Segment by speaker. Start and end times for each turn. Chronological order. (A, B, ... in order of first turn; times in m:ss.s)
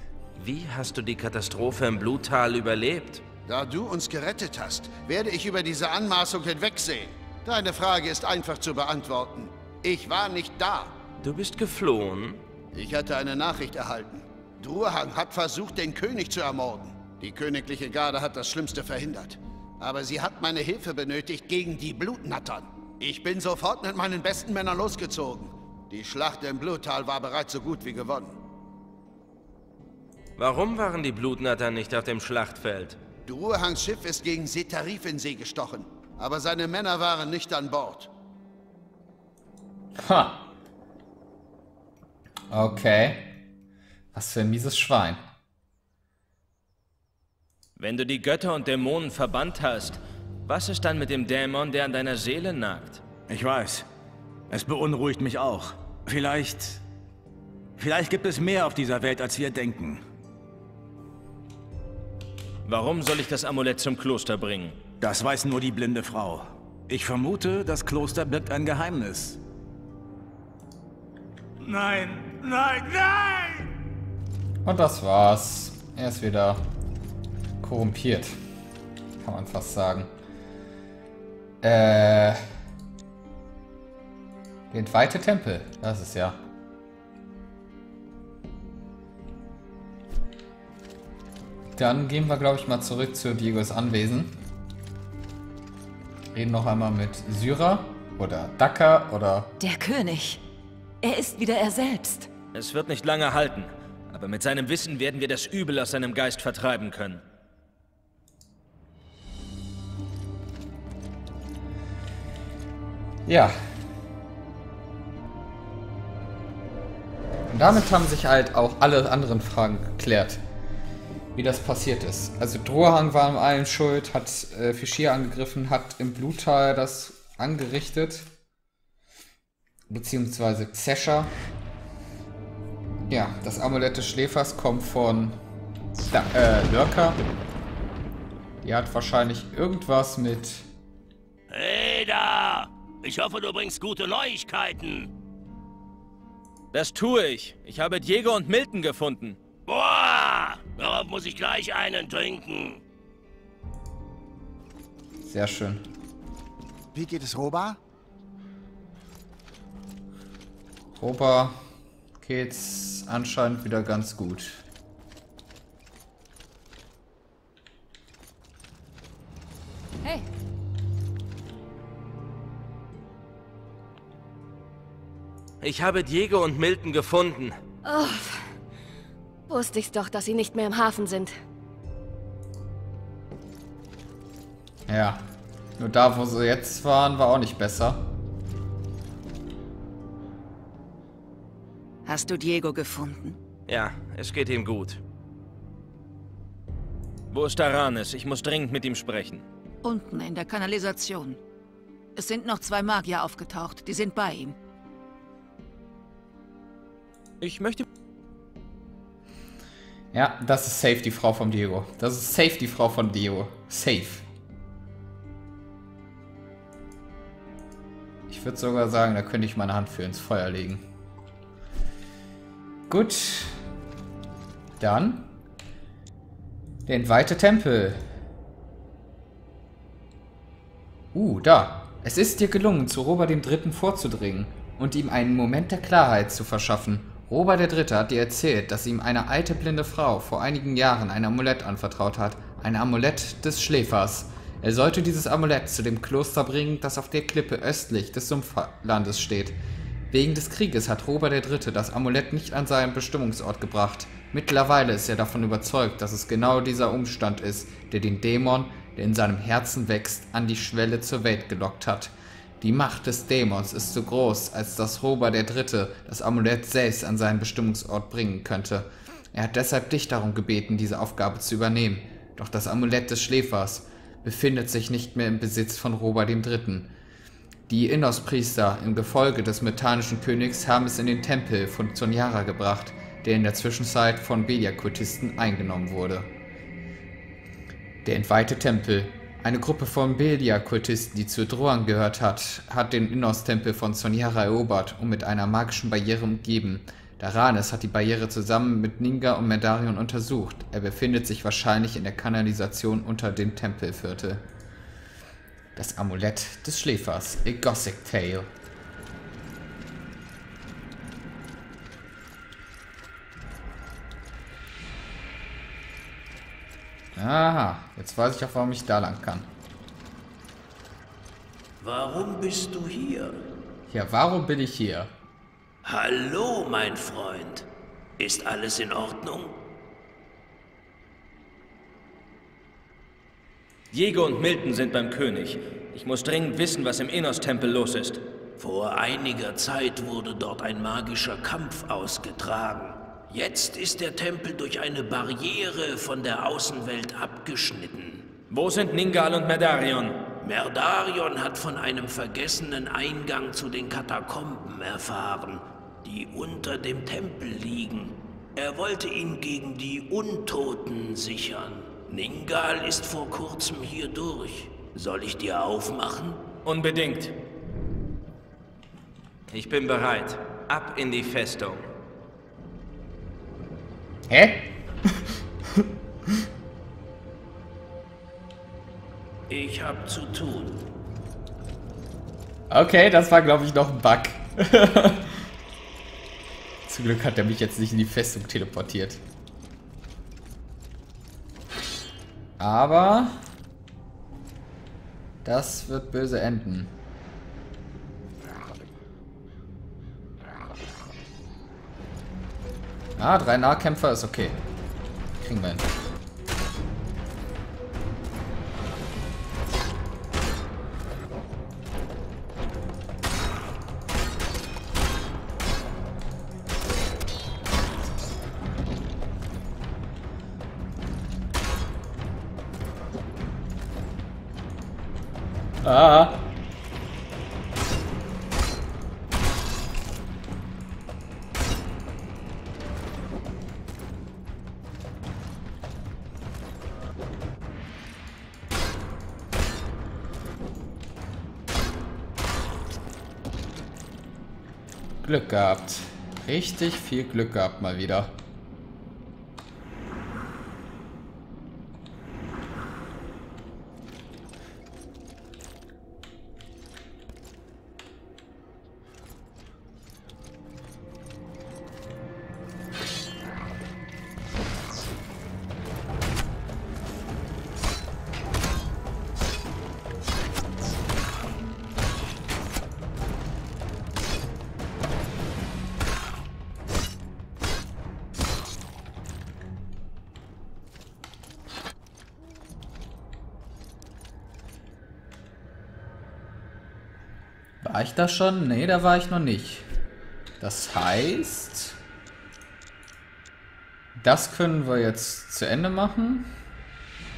0:00.4-0:03.2 A
0:03.5-0:11.0 B
0:11.2-0:12.4 A
0:12.8-0:28.4 B
0:30.4-0:33.0 A
0:33.3-0:38.1 B
0:40.0-0:40.5 C
0:42.5-0:43.3 C
0:44.1-0:45.2 C
0:47.8-0:53.0 A
0:53.3-0:53.9 D
0:54.5-0:56.8 D
0:57.8-1:00.0 D
1:02.6-1:04.8 A
1:05.0-1:09.4 D
1:11.6-1:13.7 D
1:14.6-1:16.7 C
1:17.6-1:18.4 C
1:19.2-1:20.1 C
1:21.6-1:22.4 C
1:24.7-1:26.4 C
1:31.8-1:34.4 C
1:36.3-1:39.5 C
1:39.6-1:40.4 E
1:41.0-1:42.3 E
1:42.5-1:47.2 A
1:53.3-1:53.6 C
1:57.5-2:00.4 C
2:01.4-2:08.3 C
2:09.9-2:11.3 C
2:13.1-2:15.4 C
2:16.1-2:17.3 C
2:18.6-2:20.7 C
2:21.5-2:25.1 F
2:26.7-2:29.4 A
2:29.7-2:32.8 F
2:35.2-2:35.9 C
2:36.9-2:37.8 B
2:41.0-2:41.6 C
2:42.2-2:44.6 C
2:55.6-2:57.6 A
2:57.8-2:58.5 G
2:59.5-3:01.3 G
3:04.9-3:05.2 C
3:05.8-3:08.1 C
3:12.0-3:13.4 H
3:13.7-3:15.0 A
3:17.3-3:19.4 A
3:19.8-3:21.4 H
3:22.2-3:24.6 H
3:27.4-3:27.9 A
3:30.1-3:34.3 C
3:38.3-3:40.8 C
3:42.9-3:43.6 C
3:44.8-3:45.3 C
3:46.9-3:48.0 C
3:51.1-4:09.6 C
4:10.1-4:36.9 C
4:37.7-4:46.3 C
4:48.0-5:04.4 C
5:05.8-5:08.5 C
5:17.2-5:19.5 C
5:21.8-5:23.4 I
5:23.9-5:25.1 C
5:25.8-5:27.7 I
5:28.2-5:29.6 I
5:33.9-5:38.2 A
5:38.6-5:48.3 I
5:48.5-5:50.2 A
5:50.4-6:06.4 I
6:06.6-6:07.4 A
6:09.5-6:11.9 A
6:14.3-6:14.7 C
6:19.5-6:20.8 I
6:22.7-6:25.4 C
6:26.9-6:29.2 C
6:32.6-6:33.4 C
6:35.4-6:37.0 C
6:43.2-6:44.6 C
6:45.4-6:45.9 C
7:05.8-7:06.4 C
7:25.2-7:28.4 C
8:07.8-8:09.9 C
8:10.6-8:12.0 C
8:14.2-8:16.5 C